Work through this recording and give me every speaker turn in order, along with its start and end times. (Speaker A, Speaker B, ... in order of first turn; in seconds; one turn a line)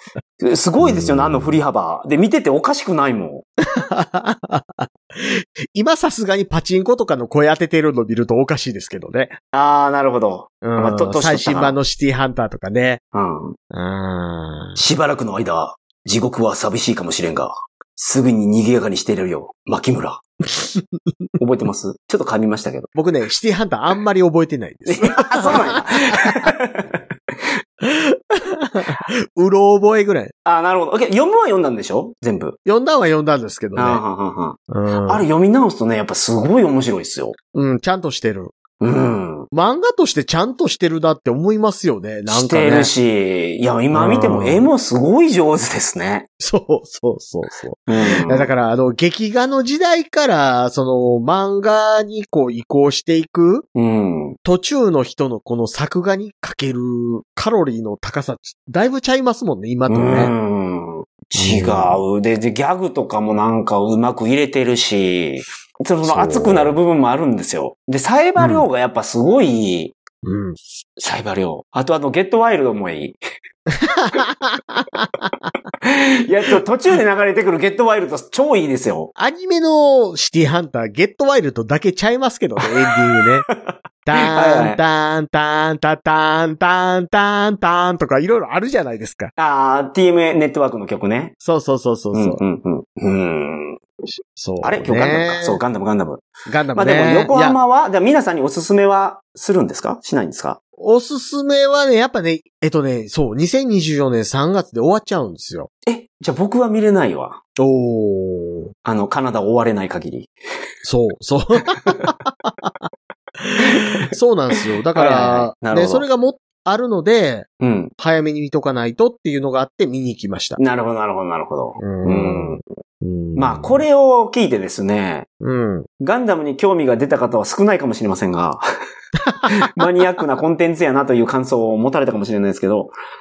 Speaker A: 0.4-3.4
Speaker B: 0.8-1.6
Speaker B: 3.6-9.4
Speaker A: 9.5-11.8
Speaker B: 10.6-13.0
Speaker A: 13.1-13.6
Speaker B: 13.7-14.8
Speaker A: 14.8-20.2
Speaker B: 20.5-21.2
Speaker A: 21.4-22.9
Speaker B: 22.9-26.5
Speaker A: 24.9-27.0
Speaker B: 27.8-30.3
Speaker A: 30.4-32.6
Speaker B: 32.6-34.0
Speaker A: 33.7-37.4
Speaker B: 34.7-35.2
Speaker B: 37.5-38.5
Speaker A: 38.8-39.5
Speaker B: 39.5-42.9
Speaker A: 42.3-46.3
Speaker B: 43.9-44.6
Speaker B: 46.4-53.6
Speaker A: 47.9-48.5
Speaker A: 53.7-54.4
Speaker B: 54.4-60.3
Speaker A: 59.9-70.0
Speaker B: 61.4-62.0
Speaker B: 66.0-66.8
Speaker B: 68.4-68.6
Speaker B: 70.2-70.6
Speaker A: 71.0-73.2
Speaker B: 73.7-75.3
Speaker A: 75.8-79.1
Speaker B: 79.2-83.5
Speaker B: 84.0-89.3
Speaker A: 84.2-84.8
Speaker A: 89.4-91.3
Speaker B: 91.4-92.4
Speaker A: 92.1-93.8
Speaker B: 94.3-95.6
Speaker A: 94.6-100.6
Speaker B: 96.5-97.6
Speaker B: 100.8-105.7
Speaker A: 105.8-107.4
Speaker B: 107.6-108.7
Speaker A: 108.8-110.3
Speaker B: 110.8-112.7
Speaker A: 111.8-112.1
Speaker B: 113.4-117.5
Speaker A: 113.6-114.0
Speaker A: 114.5-116.0
Speaker A: 117.6-117.9
Speaker B: 118.0-120.6
Speaker A: 120.6-122.6
Speaker B: 121.8-123.8
Speaker A: 123.3-125.3
Speaker B: 125.4-125.9
Speaker A: 126.0-128.6
Speaker B: 129.2-129.5
Speaker A: 129.4-132.9